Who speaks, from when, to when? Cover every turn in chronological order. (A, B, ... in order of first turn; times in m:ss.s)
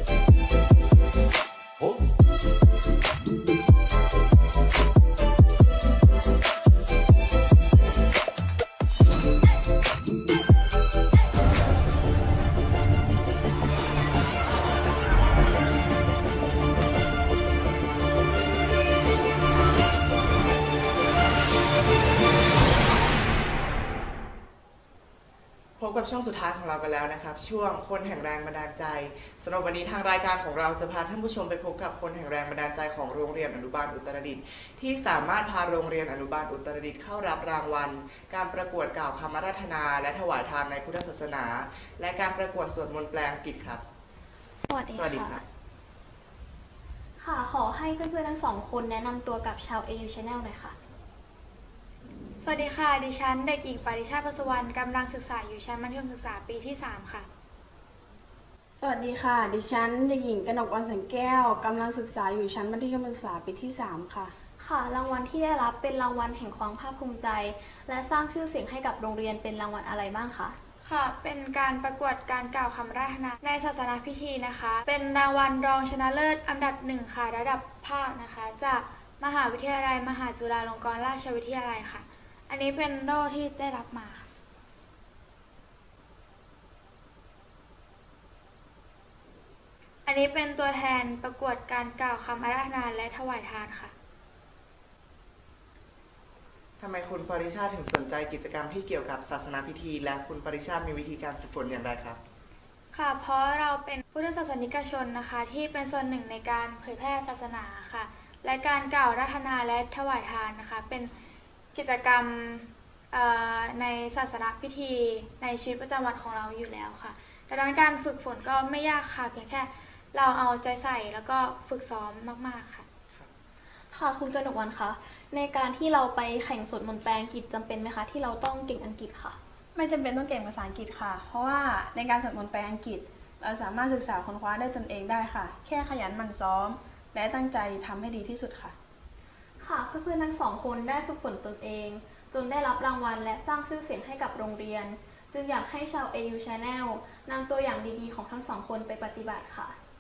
0:25.8-0:43.8 A
0:44.7-0:45.4 B
0:44.9-0:45.4 A
0:47.2-0:50.8 B
0:52.4-0:57.3 C
0:58.8-1:04.3 D
1:04.6-1:10.6 B
1:10.8-1:24.3 C
1:30.1-1:33.9 C
1:36.8-1:42.2 A
1:42.9-1:51.1 C
1:51.8-2:02.9 C
2:03.9-2:09.4 B
2:09.8-2:18.8 D
2:19.6-2:29.8 B